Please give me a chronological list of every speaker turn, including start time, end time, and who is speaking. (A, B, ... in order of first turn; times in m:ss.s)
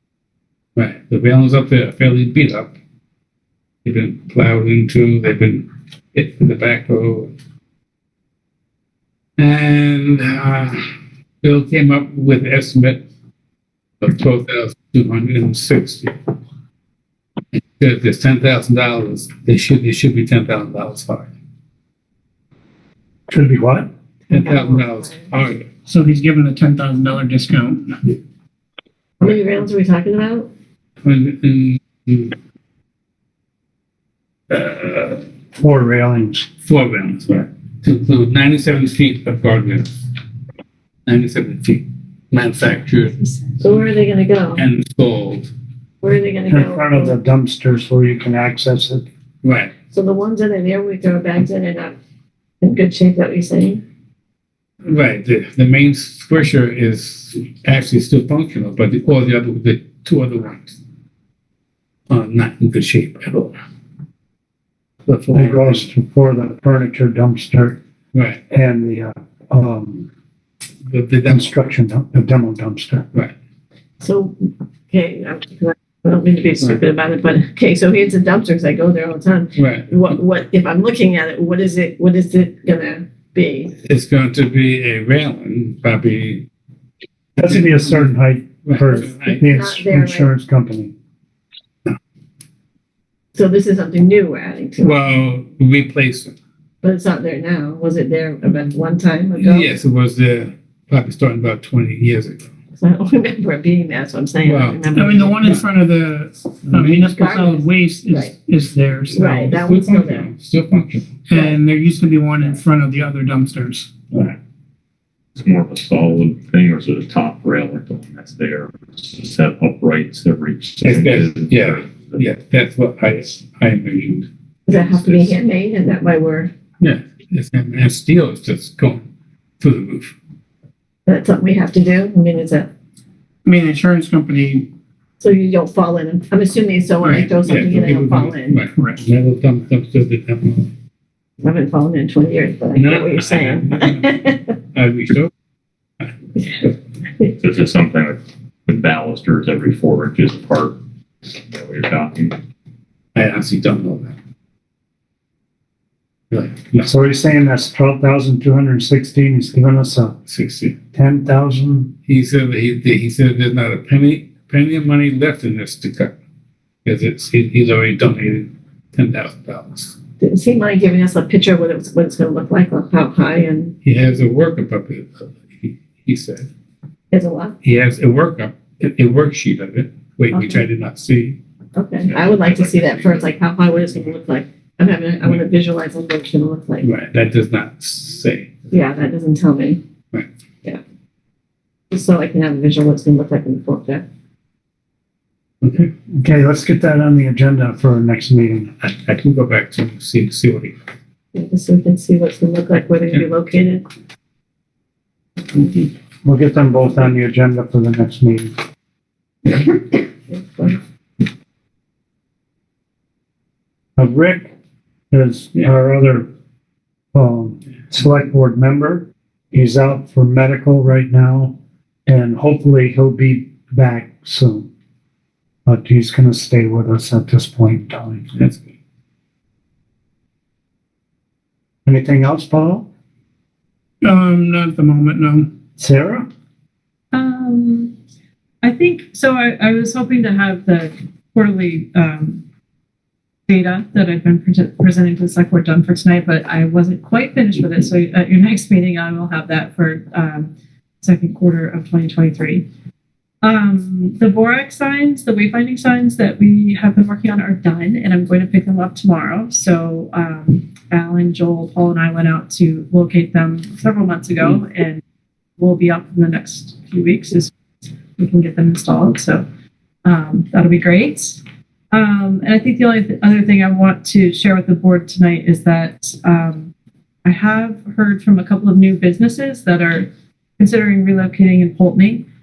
0:00.8-0:02.7 A
0:03.8-0:07.3 A
0:09.4-0:10.9 A
0:11.4-0:13.0 A
0:14.0-0:16.1 A
0:17.5-0:21.3 A
0:23.3-0:23.9 B
0:24.3-0:25.2 C
0:24.3-0:25.7 A
0:25.8-0:28.1 D
0:29.2-0:30.5 C
0:31.0-0:32.3 A
0:34.5-0:35.2 A
0:35.6-0:36.5 B
0:36.6-0:39.9 A
0:41.0-0:43.3 A
0:43.6-0:44.6 C
0:44.5-0:45.5 A
0:46.0-0:47.1 C
0:46.5-0:49.0 B
0:49.4-0:49.7 A
0:49.9-0:51.9 C
0:52.6-0:53.8 C
0:54.8-1:00.8 A
1:02.1-1:03.5 A
1:05.0-1:05.9 A
1:05.3-1:07.8 B
1:08.1-1:08.4 A
1:08.5-1:10.1 B
1:10.8-1:11.6 A
1:11.3-1:13.0 B
1:14.0-1:23.7 C
1:19.6-1:19.9 A
1:23.8-1:26.4 A
1:27.4-1:30.9 B
1:27.5-1:28.0 A
1:28.6-1:29.4 A
1:29.4-1:30.3 C
1:33.3-1:35.0 C
1:34.8-1:36.3 A
1:36.8-1:39.7 C
1:39.4-1:42.5 A
1:42.8-1:45.5 C
1:44.4-1:44.8 A
1:44.9-1:49.5 D
1:46.8-1:48.3 C
1:49.1-1:50.3 C
1:49.1-1:51.1 A
1:51.3-1:53.9 D
1:55.4-2:02.2 E
2:00.8-2:05.3 A
2:04.7-2:06.5 C
2:06.8-2:09.0 A
2:09.6-2:10.1 A
2:11.0-2:12.7 C
2:13.4-2:14.7 D
2:15.2-2:18.6 C
2:17.0-2:17.3 D
2:17.4-2:20.7 A
2:18.7-2:19.0 D
2:21.4-2:24.4 C
2:22.7-2:24.2 A
2:24.7-2:25.3 A
2:26.4-2:26.6 C
2:27.4-2:32.4 E
2:33.1-2:34.1 A
2:36.3-2:36.9 A
2:36.8-2:40.2 B
2:40.3-2:40.8 A
2:40.9-2:41.9 B
2:42.1-2:46.1 A
2:46.8-2:50.0 A
2:50.2-2:53.7 C
2:53.8-2:56.5 A
2:57.1-2:57.6 C
2:57.6-3:01.4 A
3:00.3-3:00.6 C
3:01.8-3:06.9 C
3:02.0-3:03.3 E
3:06.8-3:08.5 A
3:08.7-3:09.8 C
3:11.9-3:14.0 C
3:15.6-3:15.9 A
3:16.1-3:18.8 B
3:18.8-3:20.7 A
3:21.3-3:23.8 C
3:25.4-3:25.9 C
3:26.2-3:28.5 B
3:29.4-3:30.8 C
3:34.0-3:34.5 B
3:35.1-3:36.3 B
3:37.1-3:41.6 B
3:42.1-3:44.7 B
3:45.6-3:48.3 B
3:48.3-3:48.6 A
3:51.8-3:52.9 B
3:54.0-3:55.5 D
3:55.8-3:56.3 B
3:57.1-3:57.9 F
3:58.6-4:02.4 F
4:03.5-4:10.5 F
4:11.0-4:12.6 F
4:13.4-4:25.0 F
4:25.6-4:27.5 F
4:28.2-4:29.4 F
4:30.0-4:36.7 F
4:37.2-4:42.2 F